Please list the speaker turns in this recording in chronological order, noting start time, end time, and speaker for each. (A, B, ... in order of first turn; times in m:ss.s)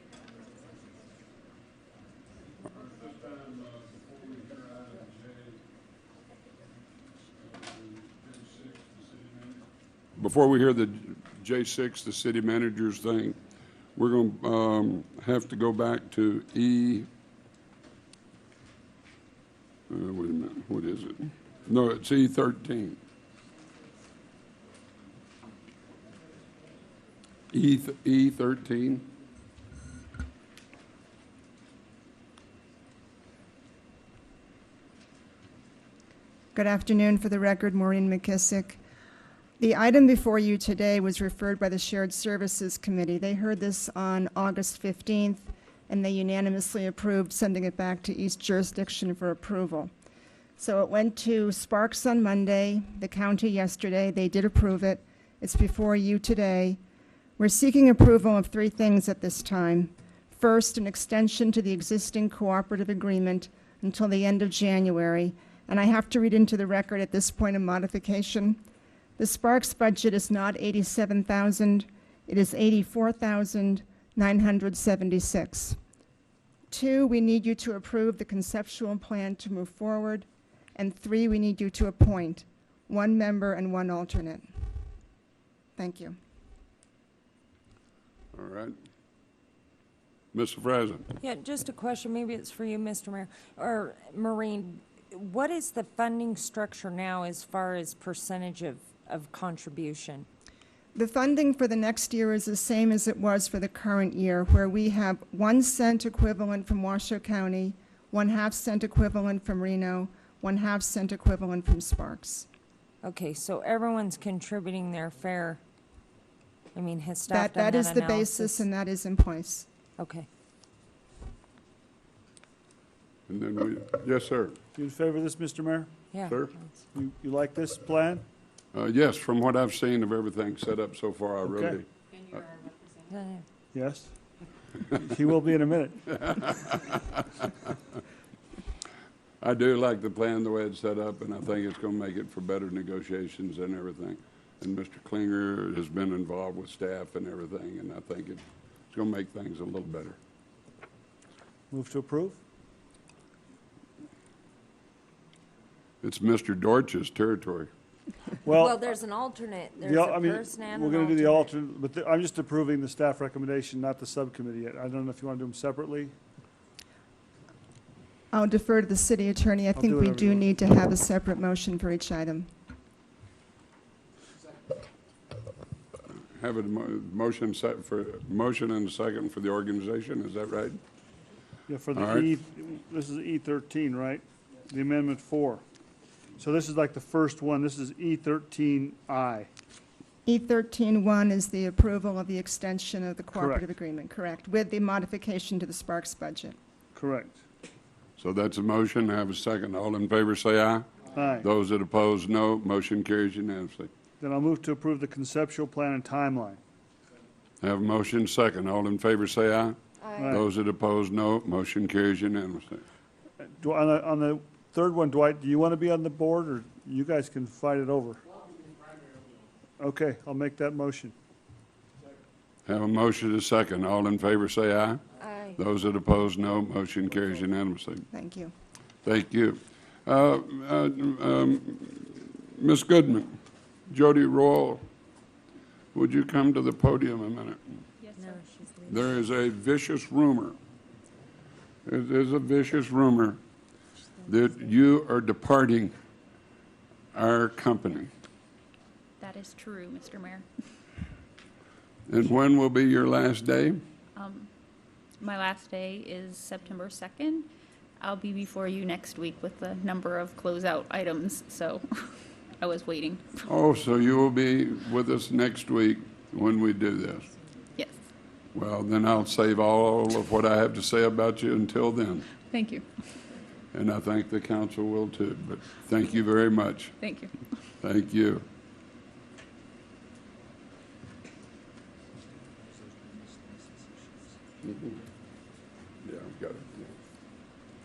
0:04.6-0:05.0 A
0:08.0-0:09.2 A
0:10.2-0:13.4 A
0:14.0-0:17.1 A
0:19.9-0:23.0 A
0:27.5-0:29.1 A
0:36.5-0:38.8 B
0:39.6-0:49.9 B
0:50.6-0:56.8 B
0:57.4-1:08.6 B
1:09.2-1:15.8 B
1:16.7-1:24.5 B
1:25.8-1:26.2 B
1:28.3-1:28.8 A
1:30.3-1:31.1 A
1:31.2-1:40.3 C
1:40.9-1:52.5 B
1:53.0-1:55.6 C
1:56.7-1:58.6 C
1:57.3-1:59.7 B
2:00.0-2:00.3 C
2:03.3-2:04.6 A
2:04.8-2:05.9 D
2:06.1-2:06.8 C
2:06.3-2:06.5 A
2:06.9-2:08.2 D
2:08.7-2:11.9 A
2:11.5-2:11.8 D
2:13.1-2:13.4 C
2:13.7-2:14.1 D
2:14.8-2:16.6 D
2:19.4-2:30.2 A
2:31.7-2:32.4 D
2:36.0-2:37.7 A
2:38.4-2:39.0 D
2:38.6-2:41.5 C
2:39.8-2:46.1 D
2:48.3-2:52.5 B
2:49.8-2:50.5 D
2:56.3-3:00.8 A
3:01.7-3:05.6 D
3:01.9-3:02.3 A
3:06.4-3:09.5 D
3:10.2-3:16.6 B
3:13.3-3:13.6 D
3:16.9-3:17.4 D
3:18.2-3:23.9 A
3:21.1-3:21.5 D
3:24.2-3:26.6 D
3:27.6-3:32.8 A
3:30.2-3:30.5 D
3:33.6-3:38.2 D
3:39.8-3:41.1 D
3:42.7-3:45.0 A
3:45.2-3:45.6 C
3:45.6-3:48.1 A
3:48.1-3:48.5 B
3:49.0-3:53.3 A
3:53.9-3:54.8 A
3:55.9-3:57.6 A
3:58.0-3:58.4 E
3:58.2-3:59.1 C
3:58.9-4:00.6 A
4:01.8-4:03.4 A
4:04.2-4:05.9 A
4:07.1-4:08.1 A
4:09.2-4:10.4 E
4:12.1-4:13.8 A
4:14.1-4:14.5 E
4:15.2-4:17.5 E
4:18.0-4:23.5 E
4:23.4-4:27.3 A
4:28.5-4:32.3 A
4:32.5-4:32.9 E
4:33.7-4:37.0 A
4:37.0-4:37.4 E
4:37.8-4:38.4 A
4:46.0-4:46.9 A